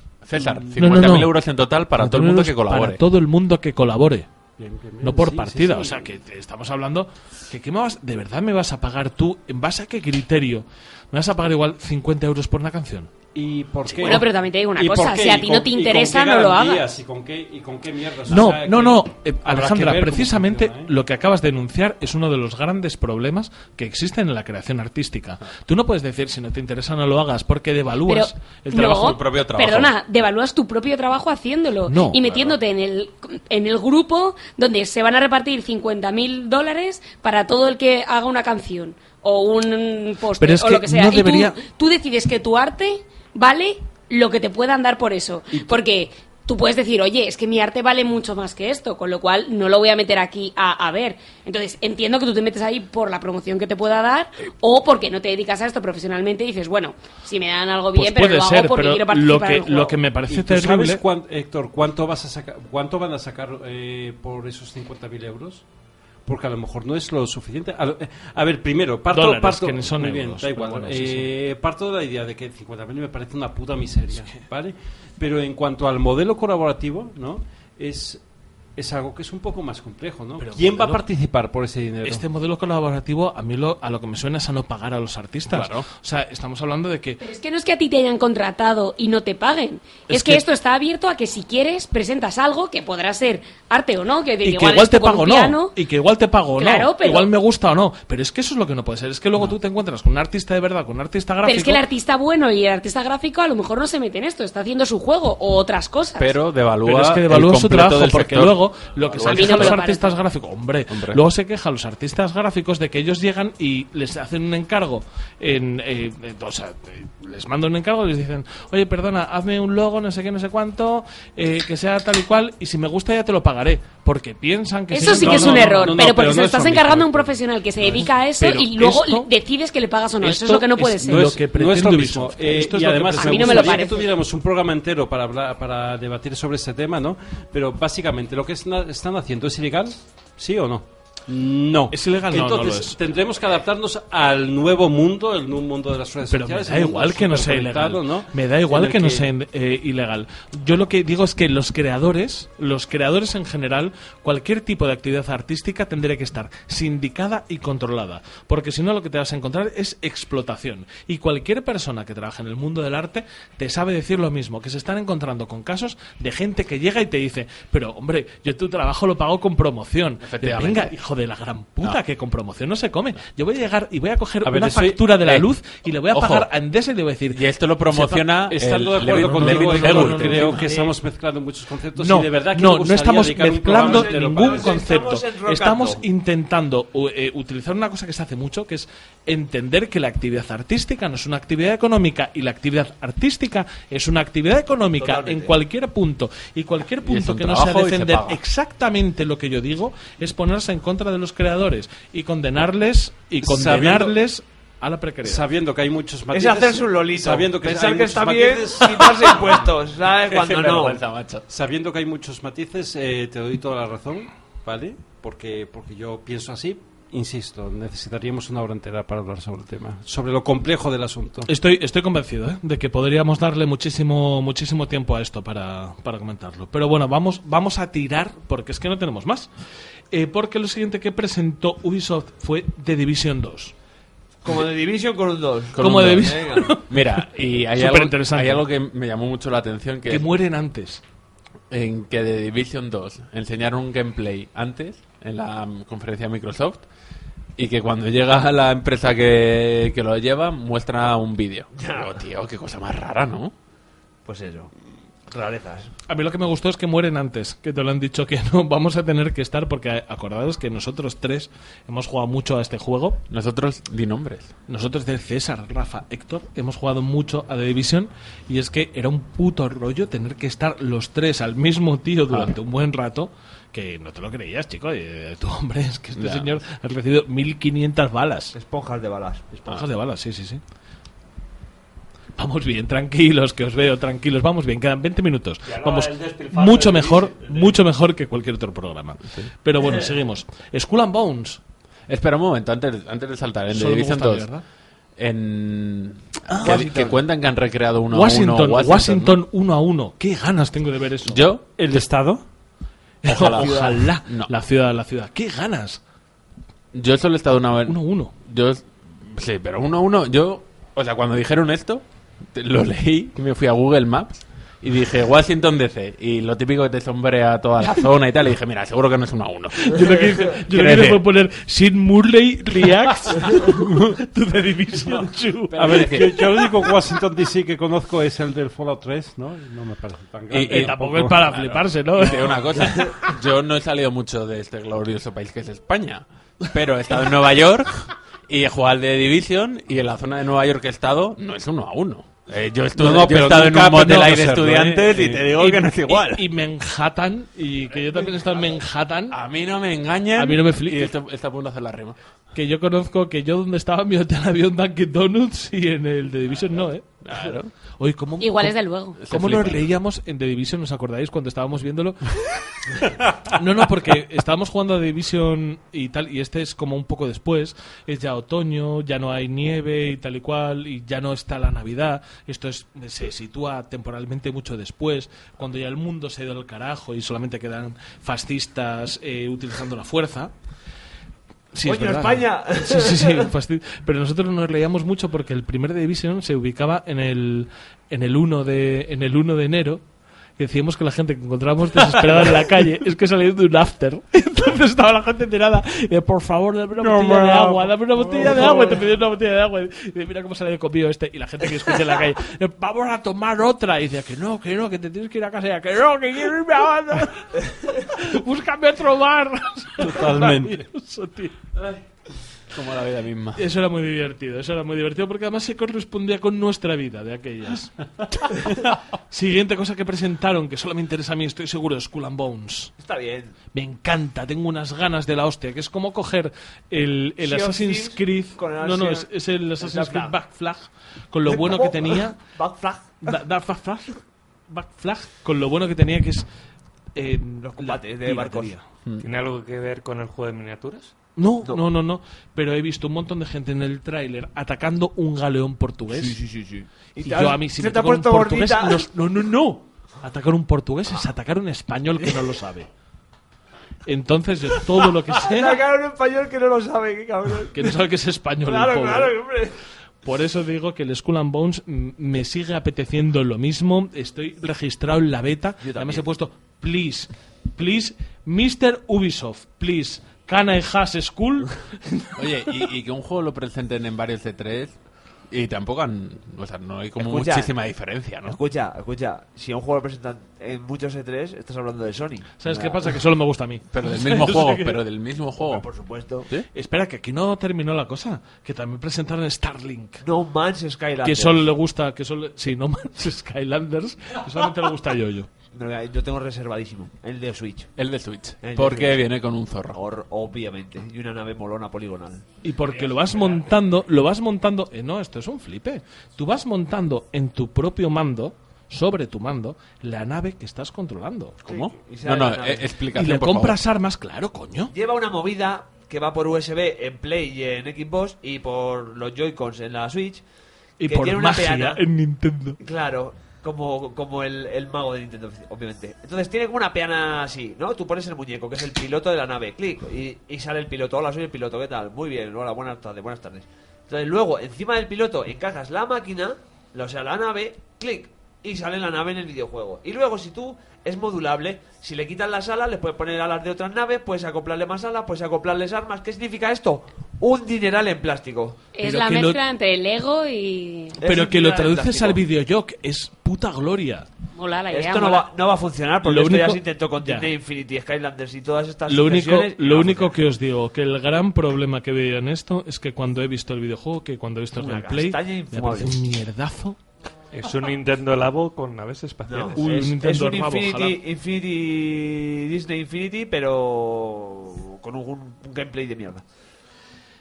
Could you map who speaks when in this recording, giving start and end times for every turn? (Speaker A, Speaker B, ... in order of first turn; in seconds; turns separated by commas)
Speaker A: 0.2-3.0, Speaker B: 0.3-0.8, Speaker C: 0.8-1.4, Speaker C: 1.9-4.3, Speaker B: 4.6-6.1, Speaker C: 5.0-13.1, Speaker B: 13.3-20.9, Speaker C: 13.9-14.2, Speaker D: 14.0-16.9, Speaker C: 18.3-29.0, Speaker D: 28.1-60.0, Speaker A: 28.7-29.9, Speaker C: 31.9-32.2, Speaker A: 32.2-32.6, Speaker C: 40.4-41.6, Speaker B: 45.5-45.8, Speaker C: 57.9-61.0, Speaker B: 60.3-65.6, Speaker B: 66.3-78.2, Speaker C: 69.1-71.3, Speaker B: 78.8-82.2, Speaker C: 80.4-81.0, Speaker C: 82.0-87.2, Speaker A: 85.5-85.9, Speaker D: 87.2-95.8, Speaker C: 90.1-90.4, Speaker C: 94.4-101.8, Speaker D: 96.5-97.3, Speaker D: 101.4-106.4, Speaker A: 106.2-109.8, Speaker C: 106.8-126.1, Speaker D: 109.2-110.2, Speaker A: 110.9-111.2, Speaker D: 124.9-131.3, Speaker B: 125.0-128.1, Speaker C: 127.9-129.3, Speaker C: 130.2-133.8, Speaker B: 131.0-149.3, Speaker D: 133.1-134.1, Speaker C: 141.9-143.0, Speaker C: 146.3-180.7, Speaker A: 170.2-170.9, Speaker B: 174.4-175.1, Speaker A: 176.1-176.5, Speaker A: 177.3-180.7, Speaker B: 178.5-184.8, Speaker E: 180.6-180.9, Speaker C: 182.0-205.5, Speaker E: 183.7-186.0, Speaker E: 195.0-195.6, Speaker A: 197.0-198.4, Speaker B: 203.4-204.2, Speaker B: 205.2-209.7, Speaker E: 206.3-211.0, Speaker A: 210.2-211.4, Speaker B: 211.5-221.5, Speaker C: 221.5-229.5, Speaker C: 230.1-233.7, Speaker E: 234.4-236.8, Speaker A: 235.7-240.3, Speaker C: 235.8-238.7, Speaker C: 240.1-241.0, Speaker A: 241.7-246.9, Speaker A: 247.6-253.5, Speaker E: 251.7-252.2, Speaker E: 254.3-254.7, Speaker E: 255.3-255.9, Speaker C: 256.1-263.2, Speaker A: 263.3-264.5, Speaker C: 264.7-278.6, Speaker A: 276.2-276.6, Speaker E: 278.5-279.5, Speaker C: 279.5-280.6, Speaker C: 282.4-291.6, Speaker F: 285.6-287.8, Speaker A: 292.1-294.5, Speaker C: 293.7-294.6, Speaker A: 295.2-299.4, Speaker C: 296.5-297.1, Speaker E: 296.7-297.0, Speaker C: 298.1-301.4, Speaker A: 301.2-302.0, Speaker B: 301.8-302.4, Speaker C: 303.2-306.0, Speaker A: 303.3-304.5, Speaker E: 303.4-304.0, Speaker A: 306.9-321.2, Speaker C: 307.9-308.3, Speaker C: 319.8-326.1, Speaker B: 323.6-324.2, Speaker A: 325.7-326.7, Speaker B: 325.8-331.4, Speaker A: 330.5-346.4, Speaker C: 330.7-332.7, Speaker B: 343.0-345.5, Speaker C: 345.6-349.4, Speaker A: 349.3-352.2, Speaker C: 350.4-351.1, Speaker C: 352.5-357.4, Speaker A: 357.2-357.7, Speaker C: 358.0-362.4, Speaker D: 358.4-359.2, Speaker A: 359.2-359.9, Speaker C: 363.4-380.5, Speaker C: 381.7-390.0, Speaker E: 381.9-383.5, Speaker C: 390.6-411.7, Speaker E: 397.1-399.0, Speaker B: 410.0-410.8, Speaker A: 412.7-413.6, Speaker C: 413.6-418.0, Speaker C: 419.3-422.9, Speaker E: 423.0-423.6, Speaker C: 423.7-432.4, Speaker E: 427.4-429.3, Speaker E: 429.8-430.4, Speaker E: 431.5-433.4, Speaker C: 433.2-436.5, Speaker C: 437.1-438.8, Speaker E: 437.6-438.8, Speaker F: 439.2-441.1, Speaker C: 441.4-446.4, Speaker E: 446.1-449.1, Speaker C: 447.2-452.9, Speaker C: 454.1-455.8, Speaker E: 455.3-458.0, Speaker C: 457.7-459.4, Speaker E: 458.6-459.8, Speaker C: 460.2-472.8, Speaker E: 465.8-466.2, Speaker A: 472.4-475.0, Speaker A: 475.5-478.6, Speaker E: 477.2-477.7, Speaker E: 478.4-483.1, Speaker C: 482.6-485.0, Speaker A: 483.9-485.9, Speaker E: 485.6-486.5, Speaker C: 486.7-490.2, Speaker E: 490.2-491.7, Speaker C: 491.2-495.5, Speaker E: 495.7-497.9, Speaker A: 498.0-500.0, Speaker E: 498.6-499.2, Speaker E: 499.9-502.5, Speaker C: 502.6-511.6, Speaker A: 511.6-513.8, Speaker E: 511.7-512.9, Speaker C: 513.1-514.9, Speaker E: 514.9-520.4, Speaker C: 521.0-522.8, Speaker E: 521.0-522.0, Speaker E: 522.8-548.8, Speaker D: 549.0-551.2, Speaker C: 549.0-549.6, Speaker E: 551.2-552.4, Speaker C: 551.2-554.3, Speaker D: 554.5-555.5, Speaker E: 554.9-560.4, Speaker C: 556.2-557.5, Speaker C: 559.1-567.0, Speaker E: 564.7-566.2, Speaker F: 567.5-569.9, Speaker E: 569.5-576.4, Speaker C: 569.8-571.2